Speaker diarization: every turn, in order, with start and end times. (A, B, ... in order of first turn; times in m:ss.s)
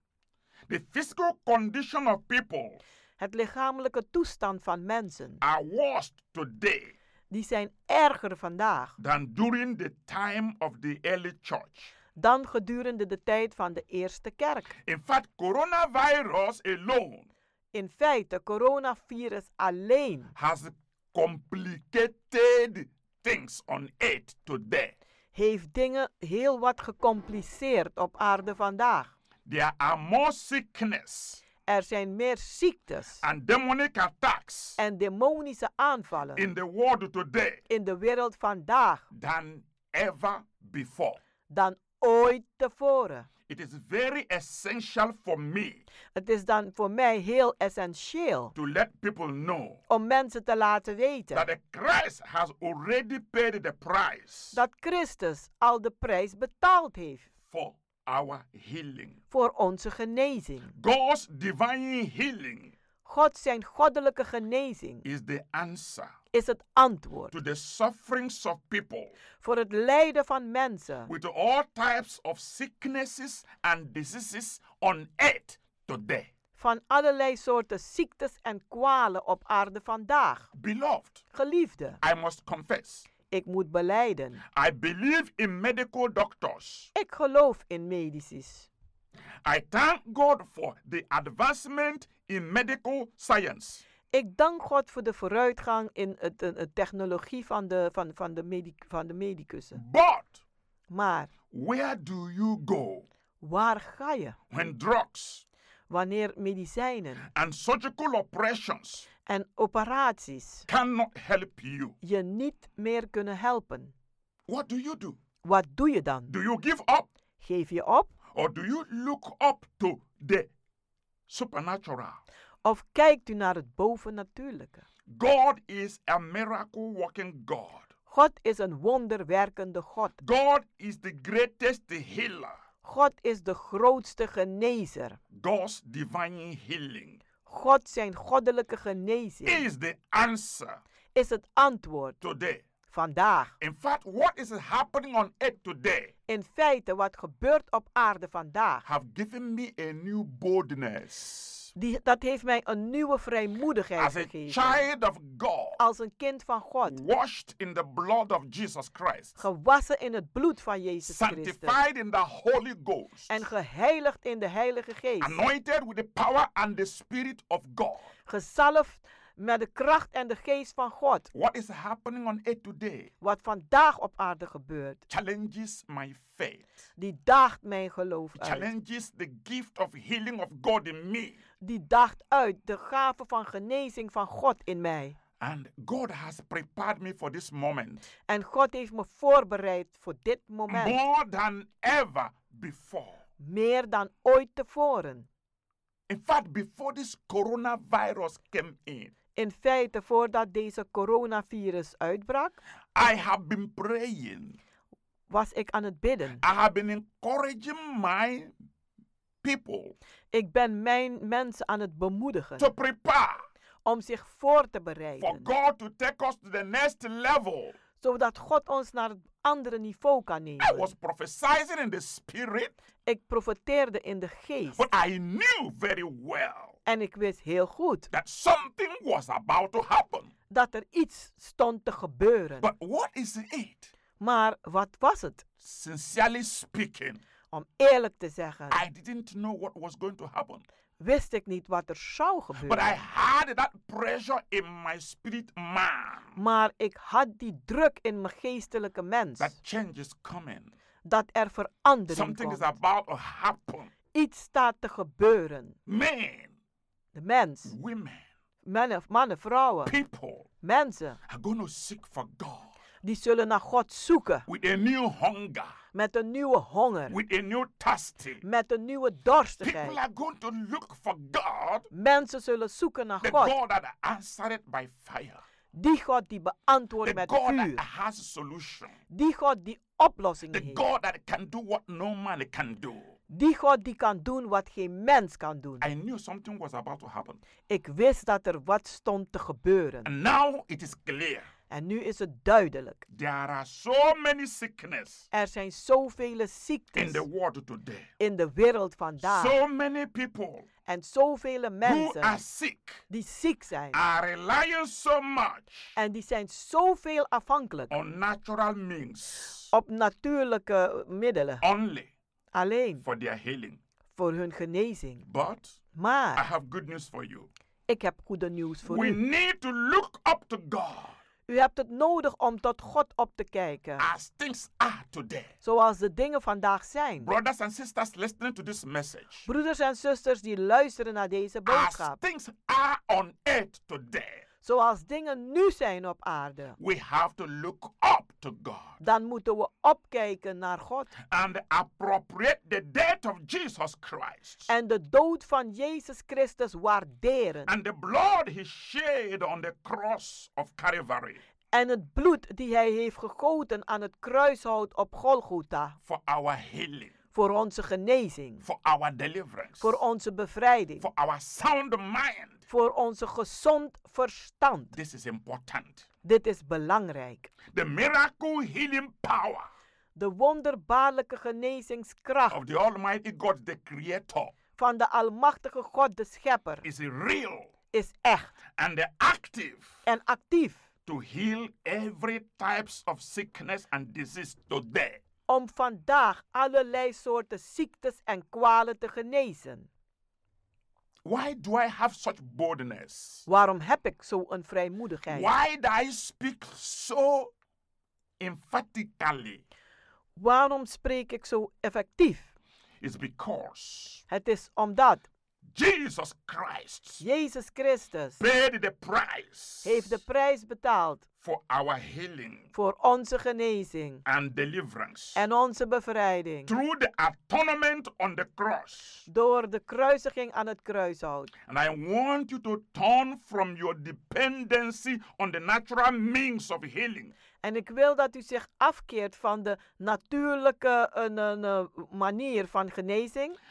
0:00.7-0:02.8 A
0:03.2-0:05.4 B
0:05.4-0:06.9 A
0:07.3-0:09.0 B
0:09.0-0:11.9 A
0:12.2-0:14.7 B
0:14.8-0:17.3 A
0:17.7-0:20.3 B
0:20.4-0:25.0 A
0:25.3-0:29.1 B
0:29.4-0:31.4 A
0:31.7-0:33.2 B
0:33.2-0:34.8 A
0:34.8-0:36.5 B
0:36.4-0:37.6 A
0:37.7-0:39.1 B
0:39.1-0:41.2 A
0:41.5-0:43.3 B
0:43.5-0:45.8 A
0:46.1-0:48.5 B
0:48.5-0:49.8 A
0:49.9-0:51.4 B
0:51.3-0:54.6 A
0:54.5-0:57.3 B
0:57.5-0:59.2 A
0:59.3-1:00.7 B
1:00.8-1:02.7 A
1:03.0-1:05.0 B
1:05.0-1:06.1 A
1:06.3-1:07.3 B
1:07.3-1:09.1 A
1:09.4-1:11.1 B
1:11.1-1:16.3 A
1:16.6-1:20.5 B
1:20.5-1:21.2 A
1:21.3-1:22.0 B
1:22.0-1:23.1 A
1:23.3-1:24.4 B
1:24.5-1:26.9 A
1:26.9-1:28.7 B
1:29.4-1:33.8 A
1:34.1-1:39.8 B
1:39.7-1:40.4 A
1:40.9-1:41.3 B
1:41.5-1:43.0 A
1:43.4-1:44.4 B
1:44.5-1:45.4 A
1:45.9-1:47.3 B
1:47.3-1:49.1 A
1:49.3-1:50.6 B
1:50.7-1:52.0 A
1:52.0-1:53.9 B
1:54.5-1:55.2 A
1:55.4-1:56.3 B
1:56.3-1:57.1 A
1:57.4-1:58.1 B
1:58.3-2:00.5 A
2:01.3-2:02.2 A
2:02.6-2:04.8 B
2:05.1-2:07.9 A
2:08.1-2:10.2 B
2:10.2-2:12.6 A
2:12.8-2:15.2 B
2:15.3-2:17.2 A
2:17.4-2:19.6 B
2:19.4-2:20.8 A
2:21.1-2:22.2 B
2:22.2-2:22.6 A
2:22.9-2:23.5 B
2:23.6-2:26.1 A
2:26.3-2:28.8 B
2:28.8-2:31.7 A
2:31.8-2:34.8 B
2:34.0-2:35.8 A
2:35.8-2:37.0 B
2:36.9-2:39.4 A
2:39.4-2:41.8 B
2:41.0-2:43.4 A
2:43.3-2:45.4 B
2:45.2-2:48.1 A
2:48.3-2:51.3 B
2:51.3-2:53.1 A
2:53.2-2:55.0 B
2:55.1-2:56.6 A
2:57.0-2:58.7 B
2:58.4-3:01.4 A
3:01.6-3:05.2 B
3:05.4-3:08.1 A
3:08.3-3:11.0 B
3:10.7-3:13.2 A
3:13.4-3:15.3 B
3:16.1-3:19.1 A
3:19.4-3:22.6 B
3:22.9-3:24.6 A
3:25.3-3:26.4 B
3:26.4-3:28.5 A
3:29.4-3:29.9 A
3:30.3-3:32.7 B
3:32.6-3:33.4 A
3:33.8-3:35.5 B
3:35.2-3:37.8 A
3:38.0-3:40.9 B
3:40.6-3:42.7 A
3:43.0-3:44.8 B
3:44.7-3:46.8 A
3:46.8-3:48.1 B
3:48.1-3:50.3 A
3:50.5-3:52.7 B
3:52.6-3:53.9 A
3:54.2-3:55.4 B
3:55.6-3:57.2 A
3:57.5-3:58.8 B
3:58.7-4:00.6 A
4:01.0-4:03.0 B
4:02.6-4:06.3 A
4:06.4-4:09.5 B
4:09.4-4:10.7 A
4:11.0-4:12.7 B
4:12.1-4:13.9 A
4:14.1-4:15.8 B
4:15.9-4:16.5 A
4:17.1-4:17.7 B
4:17.6-4:18.2 A
4:18.6-4:19.9 B
4:19.8-4:20.5 A
4:20.6-4:21.2 B
4:21.3-4:22.7 A
4:23.0-4:24.4 B
4:24.5-4:25.8 A
4:25.9-4:27.1 B
4:27.1-4:28.4 A
4:28.4-4:30.0 B
4:29.6-4:31.9 A
4:31.9-4:33.5 B
4:33.2-4:35.4 A
4:35.7-4:37.8 B
4:37.0-4:39.0 A
4:39.1-4:40.8 B
4:40.5-4:43.2 A
4:43.3-4:45.8 B
4:45.8-4:47.4 A
4:47.7-4:50.1 B
4:50.0-4:51.5 A
4:51.7-4:53.0 B
4:53.1-4:55.2 A
4:55.3-4:57.2 B
4:56.9-4:58.1 A
4:58.2-4:59.6 B
4:59.2-5:00.7 A
5:00.9-5:02.4 B
5:01.8-5:03.0 A
5:03.1-5:04.0 B
5:03.9-5:05.9 A
5:06.0-5:07.9 B
5:07.9-5:09.7 A
5:09.7-5:11.6 B
5:11.6-5:12.1 A
5:12.5-5:13.0 B
5:13.0-5:13.8 A
5:14.1-5:15.2 B
5:15.3-5:15.8 A
5:15.9-5:16.4 B
5:16.4-5:17.5 A
5:17.9-5:19.2 B
5:18.8-5:21.2 A
5:21.5-5:24.0 B
5:24.0-5:25.5 A
5:25.6-5:27.3 B
5:27.2-5:29.4 A
5:29.4-5:32.2 B
5:31.6-5:34.4 A
5:34.6-5:36.8 B
5:36.8-5:39.0 A
5:39.0-5:41.1 B
5:41.3-5:44.7 A
5:44.7-5:47.7 B
5:47.7-5:51.4 A
5:51.7-5:56.0 B
5:56.0-5:57.1 A
5:57.3-5:58.6 B
5:58.6-6:00.0 A
5:59.8-6:01.0 B
6:01.0-6:02.6 A
6:02.7-6:04.9 B
6:04.9-6:06.1 A
6:06.2-6:07.5 B
6:07.7-6:09.7 A
6:10.2-6:12.6 B
6:12.5-6:14.5 A
6:14.8-6:16.8 B
6:16.8-6:17.7 A
6:17.9-6:18.6 B
6:18.7-6:19.9 A
6:20.0-6:20.8 B
6:21.0-6:25.2 A
6:25.5-6:29.9 B
6:31.2-6:33.4 A
6:33.5-6:35.5 B
6:35.3-6:37.5 A
6:38.4-6:39.6 A
6:40.4-6:42.5 B
6:43.0-6:44.2 A
6:44.3-6:45.2 B
6:45.7-6:47.2 A
6:47.2-6:48.4 B
6:48.4-6:50.2 A
6:49.8-6:51.2 B
6:51.4-6:52.7 A
6:52.7-6:54.2 B
6:54.2-6:55.4 A
6:55.3-6:56.7 B
6:56.7-6:59.2 A
6:59.3-7:01.5 B
7:01.7-7:07.3 A
7:07.6-7:13.6 B